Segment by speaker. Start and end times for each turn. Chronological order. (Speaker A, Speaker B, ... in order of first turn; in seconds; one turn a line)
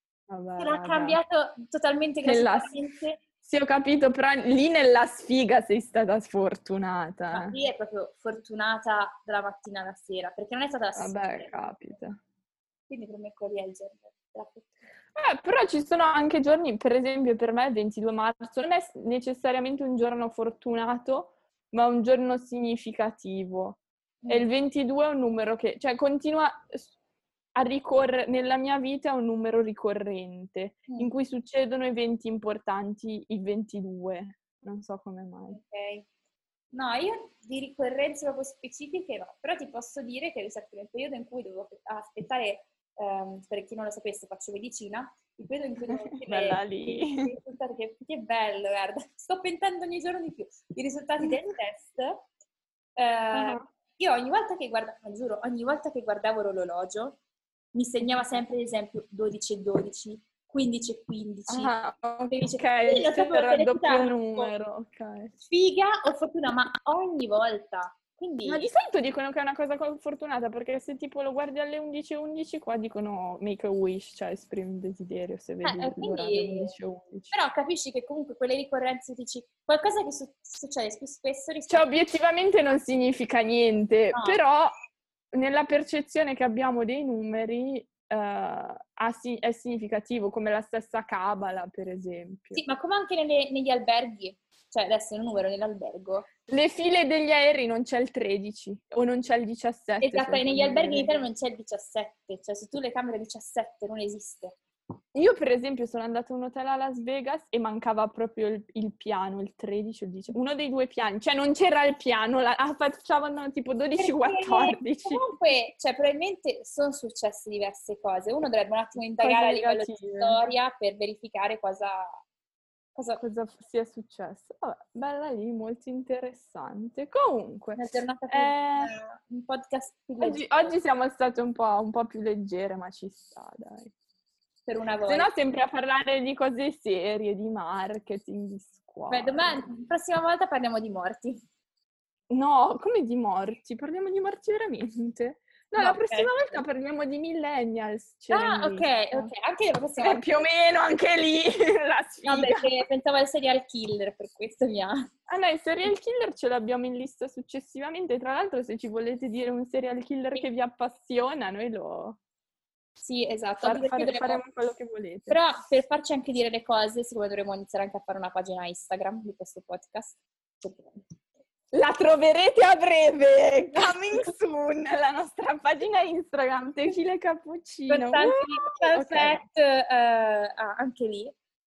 Speaker A: 0.3-1.2
Speaker B: 0.6-3.2
Speaker A: 2.2-2.8
Speaker A: 3.4-7.5
Speaker B: 7.3-11.5
Speaker A: 10.9-12.2
Speaker B: 12.9-14.7
Speaker A: 15.1-26.9
Speaker B: 24.2-24.5
Speaker A: 27.5-35.6
Speaker B: 35.5-36.1
Speaker B: 36.7-52.2
Speaker A: 45.9-47.3
Speaker B: 53.0-57.2
Speaker A: 53.3-53.6
Speaker B: 57.7-61.7
Speaker A: 61.5-65.3
Speaker B: 62.3-64.5
Speaker B: 65.4-68.7
Speaker A: 68.5-77.3
Speaker B: 75.6-76.7
Speaker B: 77.3-81.9
Speaker A: 81.7-84.7
Speaker B: 84.1-84.4
Speaker A: 85.3-92.6
Speaker B: 92.5-96.3
Speaker A: 96.5-101.2
Speaker B: 100.0-104.5
Speaker A: 105.1-115.3
Speaker B: 114.0-122.2
Speaker A: 119.2-120.4
Speaker B: 122.9-123.2
Speaker A: 123.2-128.9
Speaker B: 127.8-130.7
Speaker A: 130.2-133.9
Speaker B: 134.7-135.3
Speaker A: 135.1-139.7
Speaker B: 139.1-141.4
Speaker A: 142.3-149.3
Speaker B: 145.7-146.3
Speaker B: 148.3-150.4
Speaker A: 150.0-152.7
Speaker B: 152.2-155.1
Speaker A: 155.3-162.2
Speaker B: 163.0-164.4
Speaker A: 163.6-165.4
Speaker B: 165.3-171.0
Speaker A: 171.7-179.4
Speaker B: 177.9-181.3